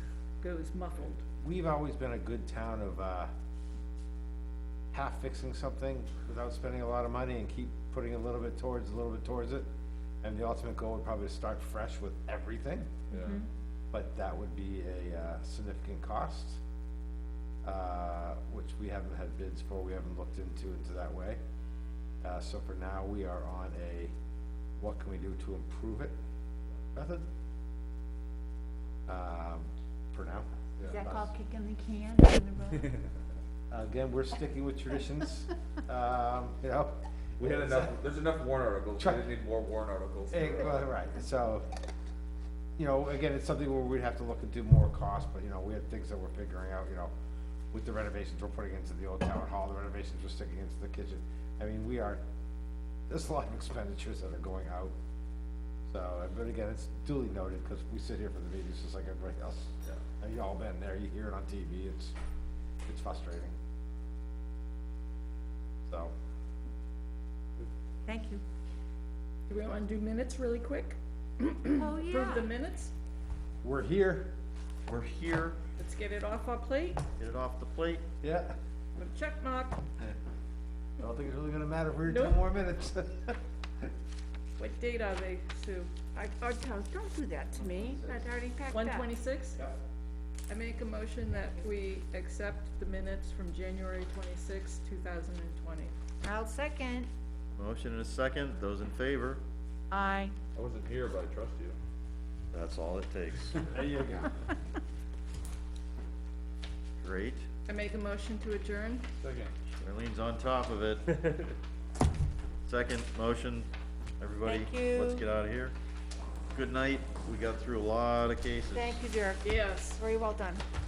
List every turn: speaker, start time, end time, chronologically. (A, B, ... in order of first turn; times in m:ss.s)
0:00.4-0:01.2 A
0:01.4-0:03.3 B
0:04.9-0:09.6 B
0:10.2-0:12.9 B
0:13.1-0:13.4 C
0:13.2-0:13.4 D
0:13.9-0:16.6 B
0:17.6-0:21.4 B
0:22.2-0:24.1 B
0:24.8-0:26.2 B
0:26.9-0:27.3 B
0:29.1-0:31.3 B
0:30.9-0:32.9 D
0:33.7-0:37.9 B
0:37.4-0:40.8 C
0:39.0-0:39.2 B
0:40.3-0:41.7 B
0:42.8-0:47.1 B
0:47.7-0:52.2 B
0:53.1-0:55.0 B
0:55.9-1:02.1 B
1:02.9-1:03.5 B
1:05.9-1:06.1 B
1:08.1-1:08.4 D
1:09.5-1:12.9 A
1:11.8-1:12.4 D
1:13.6-1:14.3 B
1:14.9-1:15.6 E
1:15.8-1:17.0 A
1:17.2-1:18.0 E
1:18.2-1:18.6 B
1:19.0-1:19.8 A
1:21.0-1:23.4 B
1:22.1-1:22.4 A
1:24.6-1:26.0 A
1:26.1-1:29.0 D
1:27.8-1:28.1 C
1:28.7-1:29.6 A
1:30.5-1:35.9 A
1:36.2-1:37.1 D
1:37.6-1:39.4 E
1:39.9-1:40.3 D
1:40.6-1:41.8 C
1:42.5-1:43.6 E
1:43.7-1:44.3 B
1:47.0-1:47.4 E
1:47.7-1:49.1 A
1:49.2-1:49.5 C
1:49.8-1:51.2 E
1:52.6-1:55.8 E
1:54.4-1:55.2 D
1:56.5-1:59.0 E
1:58.7-1:59.4 D
1:59.4-2:00.0 A
2:00.0-2:00.6 D